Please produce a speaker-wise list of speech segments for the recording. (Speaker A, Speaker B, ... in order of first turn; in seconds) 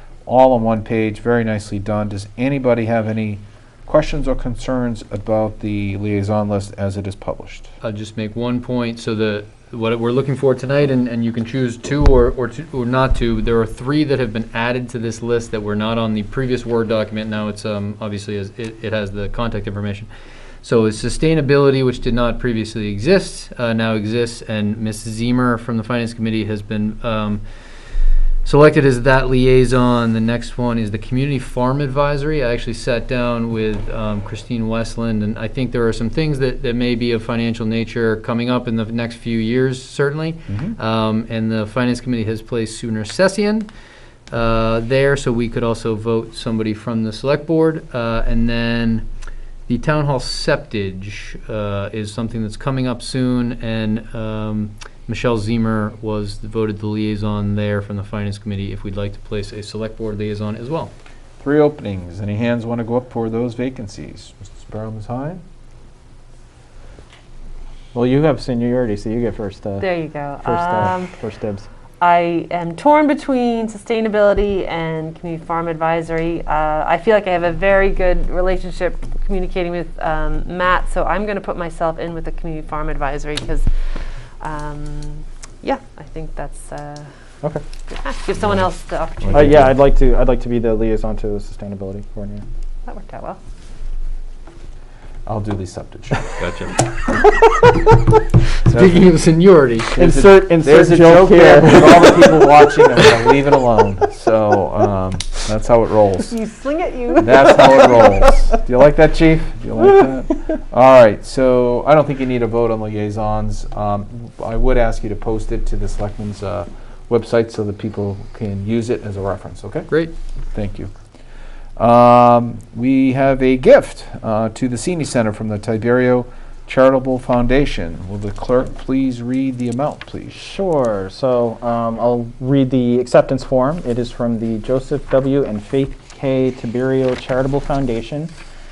Speaker A: 0.2-7.7, 40.5-40.7, 61.4-65.4, 89.3-89.7, 95.2-96.3, 98.7-99.0, 99.9-106.4, 107.2-119.9, 120.5-120.9, 121.8-130.4
Speaker B: 7.8-20.1, 20.6-27.4, 28.4-43.7, 44.3-49.0, 49.7-60.9, 96.4-96.9, 98.7-99.9
Speaker C: 67.9-69.9, 70.4-71.7, 89.3-92.4, 100.0-102.9, 130.3-138.3
Speaker D: 69.8-71.1, 72.0-83.8, 84.4-87.1, 87.9-89.5, 92.8-93.4, 106.2-108.2